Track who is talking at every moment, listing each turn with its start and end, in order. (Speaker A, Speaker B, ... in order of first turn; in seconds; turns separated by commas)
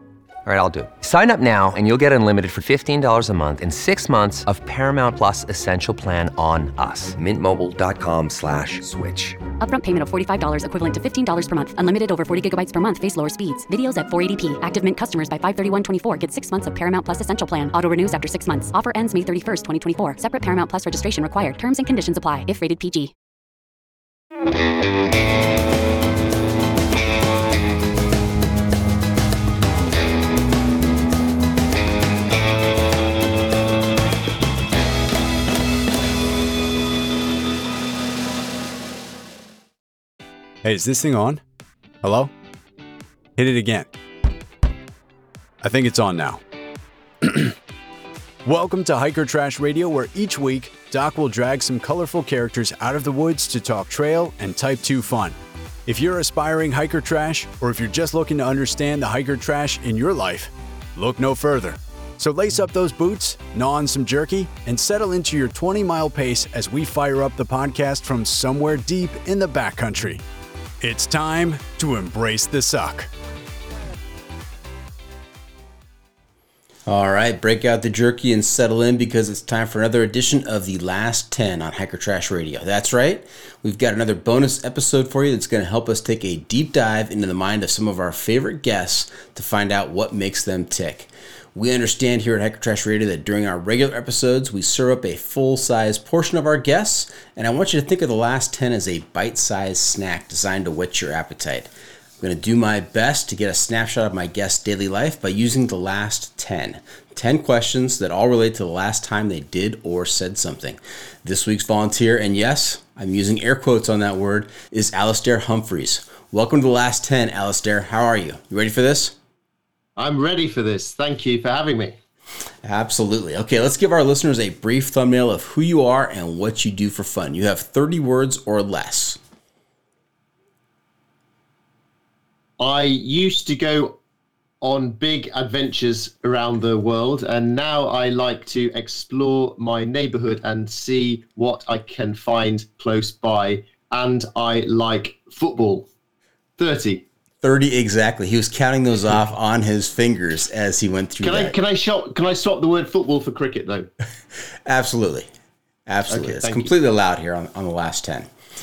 Speaker A: 0.5-9.4, Speaker B: 9.6-23.1, Speaker C: 40.6-41.4, Speaker C: 42.0-42.3, Speaker C: 43.4-43.9, Speaker C: 45.6-46.4, Speaker C: 48.5-55.3, Speaker C: 56.0-60.5, Speaker C: 61.0-70.2, Speaker C: 70.9-73.0, Speaker D: 76.9-119.2, Speaker E: 120.0-122.0, Speaker D: 122.6-129.2, Speaker E: 132.6-134.0, Speaker E: 134.6-145.9, Speaker E: 146.6-147.0, Speaker D: 147.4-151.6, Speaker E: 151.2-153.9, Speaker D: 154.7-155.3, Speaker D: 155.9-158.3, Speaker E: 156.1-156.7